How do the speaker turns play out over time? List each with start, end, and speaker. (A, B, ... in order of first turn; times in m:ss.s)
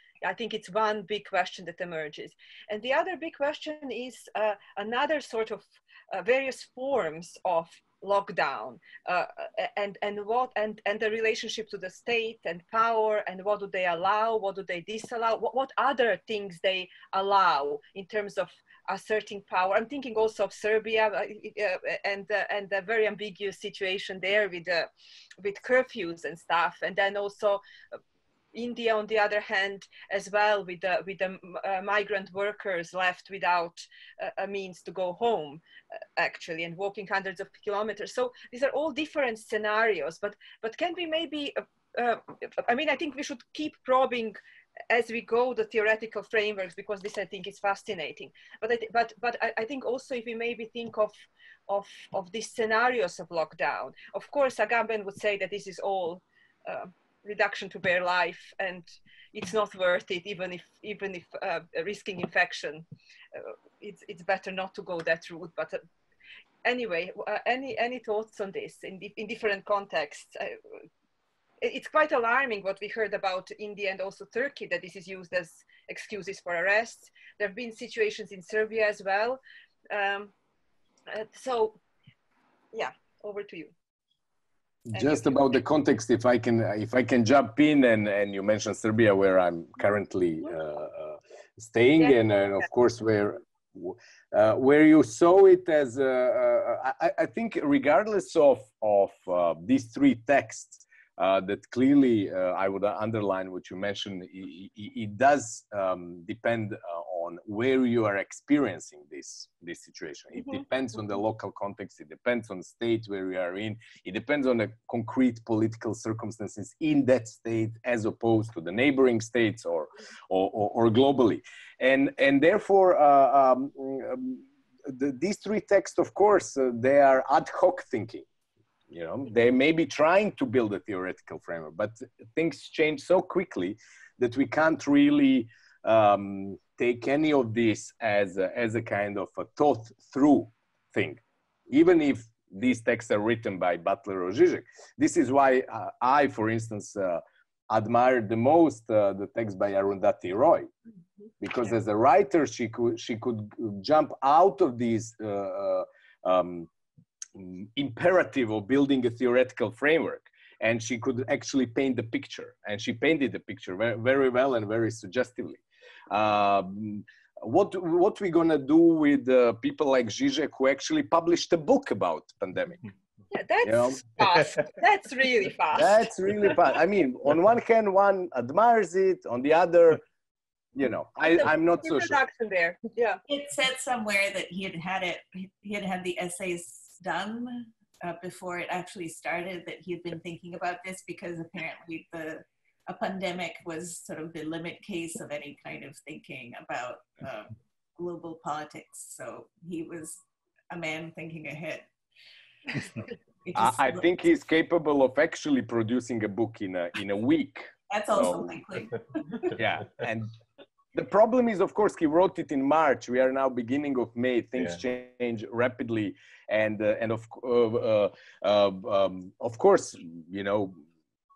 0:00.2-0:27.6 A
0:28.5-0:35.6 A
0:36.2-0:44.4 A
0:44.9-1:05.8 A
1:06.6-1:10.6 A
1:11.6-1:20.3 A
1:21.1-1:21.8 A
1:22.7-1:23.7 A
1:24.9-2:08.3 B
1:24.9-1:25.5 A
1:32.0-1:32.7 A
2:08.9-2:30.7 B
2:31.4-2:36.7 B
2:37.4-2:52.8 B
2:53.3-2:56.1 A
2:53.6-2:54.0 B
2:55.7-3:00.0 B
3:00.8-3:02.2 B
3:01.3-3:03.2 A
3:03.3-3:21.9 C
3:23.4-3:24.0 C
3:23.6-3:28.5 B
3:27.9-3:29.5 C
3:29.5-3:30.3 B
3:30.9-3:40.8 B